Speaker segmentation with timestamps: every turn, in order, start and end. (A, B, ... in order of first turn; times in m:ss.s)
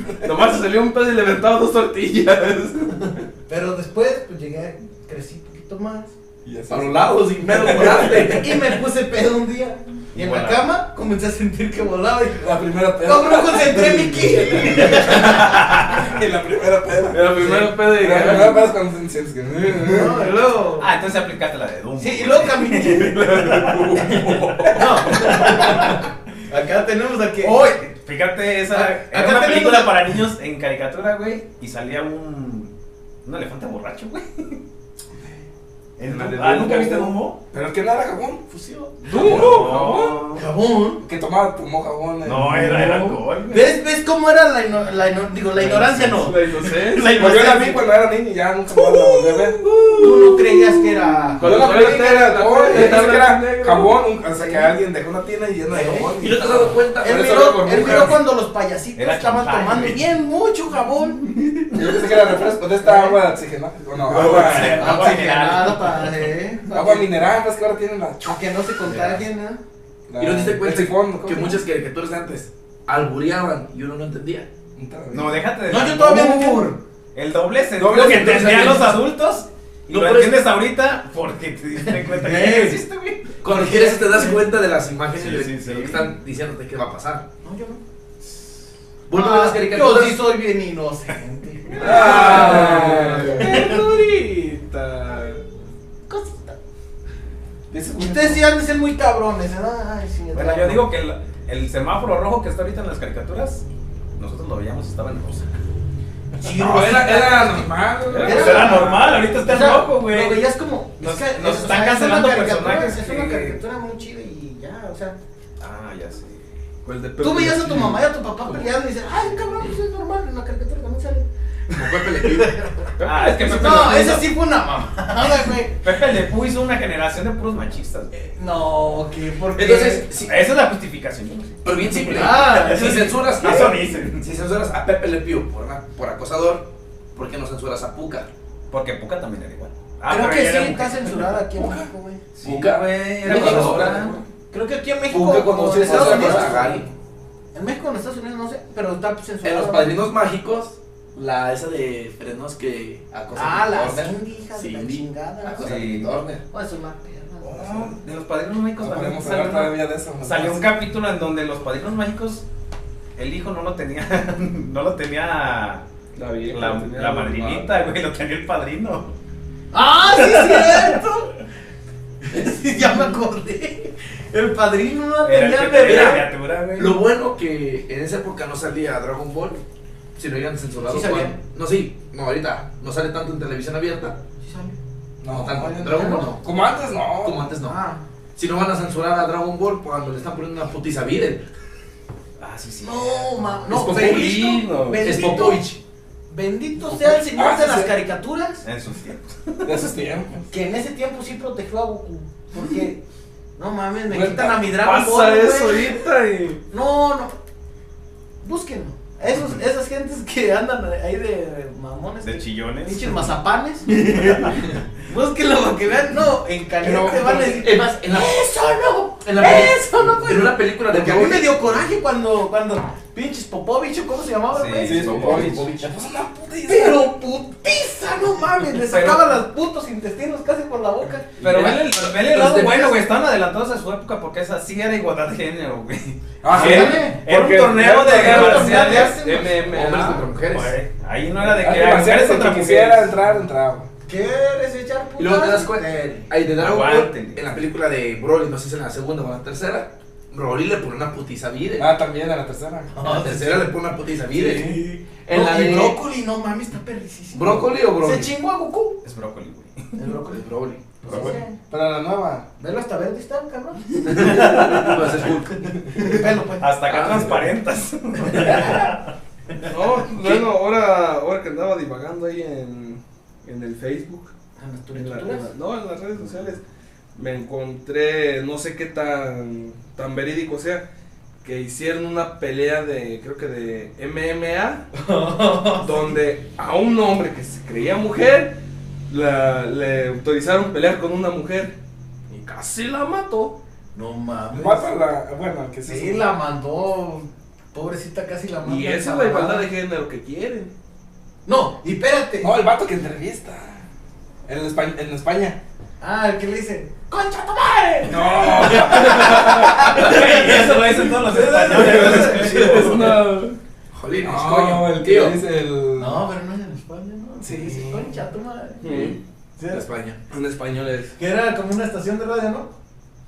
0:00.2-0:03.2 A
0:03.5-0:06.1 B
0:06.4-0:08.2 C
0:06.7-0:08.6 D
0:07.4-0:15.6 B
0:10.1-0:10.7 E
0:12.4-0:20.2 C
0:15.2-0:16.1 E
0:17.1-0:18.7 A
0:17.4-0:18.4 D
0:19.8-0:20.9 B
0:20.8-0:25.8 E
0:22.0-0:23.6 B
0:23.6-0:24.8 A
0:23.7-0:25.0 C
0:24.7-0:27.9 B
0:27.4-0:32.7 E
0:28.7-0:30.1 B
0:33.2-0:34.6 E
0:36.0-0:37.4 E
0:36.0-0:38.4 C
0:38.5-0:39.5 B
0:39.0-0:40.2 A
0:39.1-0:39.9 C
0:39.2-0:40.4 E
0:40.3-0:41.0 B
0:41.0-0:43.2 C
0:42.2-0:43.7 E
0:43.5-0:47.9 B
0:45.6-0:47.2 A
0:47.1-0:49.6 C
0:49.0-0:50.2 D
0:49.6-0:50.2 A
0:50.0-0:53.0 B
0:51.3-0:54.0 A
0:51.4-0:51.8 D
0:51.4-0:58.2 C
0:54.3-0:54.7 B
0:55.7-0:56.1 B
0:56.2-0:58.2 D
0:57.0-1:01.3 B
0:59.0-1:00.0 E
1:01.7-1:05.1 C
1:02.8-1:03.2 B
1:04.1-1:06.3 E
1:04.3-1:04.6 A
1:04.7-1:07.2 B
1:06.7-1:08.4 C
1:08.2-1:09.6 B
1:08.9-1:09.2 E
1:10.1-1:11.6 C
1:10.2-1:14.5 D
1:14.7-1:15.4 C
1:15.1-1:23.3 E
1:15.7-1:16.8 B
1:17.8-1:18.9 C
1:17.8-1:19.0 D
1:19.9-1:20.4 D
1:21.8-1:22.8 B
1:23.4-1:27.2 D
1:23.4-1:24.4 B
1:25.1-1:26.1 E
1:27.4-1:27.8 B
1:29.1-1:30.2 D
1:29.1-1:33.9 B
1:31.8-1:33.2 D
1:31.8-1:35.4 A
1:31.8-1:33.6 C
1:36.1-1:36.6 B
1:37.7-1:38.4 C
1:38.0-1:40.8 B
1:40.3-1:43.6 E
1:44.2-1:45.5 E
1:46.4-1:55.2 B
1:46.4-1:48.9 C
1:48.0-1:49.4 A
1:48.2-1:50.4 E
1:51.0-1:53.6 E
1:55.6-1:56.4 E
1:56.8-1:58.6 A
1:57.2-2:02.9 B
2:01.8-2:02.5 D
2:03.0-2:04.3 E
2:03.2-2:03.8 A
2:03.4-2:05.8 B
2:05.4-2:08.1 E
2:08.1-2:10.1 B
2:09.5-2:10.4 D
2:10.2-2:14.3 E
2:11.6-2:18.3 D
2:12.0-2:13.7 B
2:18.7-2:21.3 E
2:20.1-2:22.2 B
2:21.6-2:21.9 C
2:22.4-2:24.2 E
2:22.4-2:24.1 D
2:23.2-2:26.9 B
2:23.2-2:24.2 C
2:25.1-2:26.9 D
2:25.8-2:26.7 C
2:27.5-2:30.0 B
2:29.4-2:36.4 D
2:33.3-2:35.8 B
2:35.6-2:36.2 E
2:36.5-2:37.9 B
2:37.4-2:42.4 E
2:38.8-2:40.7 C
2:43.2-2:45.8 E
2:46.1-2:47.7 A
2:46.5-2:49.1 E
2:49.7-2:51.3 B
2:50.1-2:51.0 E
2:52.2-2:56.2 B
2:55.2-2:57.0 E
2:55.8-2:59.6 D
3:00.2-3:04.2 D
3:00.8-3:01.4 B
3:04.4-3:04.7 B
3:05.2-3:07.6 C
3:05.3-3:06.4 D
3:05.9-3:06.4 B
3:07.2-3:07.8 D
3:07.6-3:08.0 B
3:08.3-3:11.4 D
3:12.4-3:13.7 E
3:12.8-3:15.7 B
3:13.7-3:15.5 A
3:13.7-3:14.3 C
3:13.9-3:14.5 D
3:15.0-3:15.8 D
3:16.3-3:18.6 B
3:16.8-3:17.9 C
3:18.6-3:19.9 E
3:19.6-3:20.5 C
3:20.5-3:23.0 B
3:23.6-3:26.0 B
3:24.1-3:24.7 C
3:24.8-3:26.6 A
3:26.7-3:27.3 B
3:28.4-3:45.2 B
3:32.2-3:33.2 E
3:36.8-3:37.6 C
3:37.2-3:38.4 D
3:39.2-3:41.5 D
3:44.5-3:45.5 E
3:44.8-3:47.1 C
3:44.9-3:45.9 D
3:46.7-3:51.8 B
3:48.9-3:49.2 C
3:51.4-3:51.7 C
3:51.4-3:59.2 E
3:51.5-3:52.9 A
3:56.4-3:57.0 C
3:56.5-3:57.2 B
3:56.5-4:00.3 A
3:58.0-3:59.8 B
3:59.6-4:00.7 D
4:00.5-4:03.1 E
4:01.4-4:03.9 C
4:04.0-4:06.3 B
4:05.2-4:11.9 D
4:06.6-4:07.4 E
4:11.8-4:13.0 C
4:12.9-4:13.7 B
4:13.0-4:16.0 D
4:14.4-4:14.8 A
4:14.6-4:19.0 B
4:17.3-4:18.3 D
4:19.0-4:19.9 E
4:20.0-4:21.6 B
4:20.3-4:20.8 D
4:21.0-4:22.5 C
4:22.6-4:24.8 B
4:24.0-4:26.2 D
4:24.2-4:25.3 E
4:25.9-4:26.7 B
4:26.6-4:29.1 E
4:26.9-4:27.5 D
4:28.3-4:28.6 D
4:28.3-4:28.9 B
4:29.6-4:34.3 A
4:34.6-4:35.5 B
4:34.9-4:36.6 A
4:37.1-4:40.8 A
4:41.4-4:44.8 A
4:44.9-4:46.2 B
4:45.7-4:48.6 A
4:49.1-4:51.8 A
4:52.3-4:53.6 A
4:53.9-4:54.9 B
4:54.5-4:56.3 C
4:55.8-4:59.7 B
4:58.6-5:00.7 A
5:01.4-5:02.5 B
5:02.4-5:03.8 C
5:04.5-5:05.6 C
5:06.0-5:13.1 B
5:08.0-5:09.6 C
5:08.8-5:10.0 A
5:09.9-5:13.0 E
5:11.8-5:13.6 A
5:13.9-5:15.4 D
5:14.2-5:16.2 C
5:16.0-5:18.9 B
5:17.4-5:18.1 C
5:18.8-5:19.2 A
5:18.9-5:19.2 D
5:19.6-5:19.8 B
5:19.7-5:20.2 D
5:20.3-5:21.1 A
5:21.2-5:22.7 B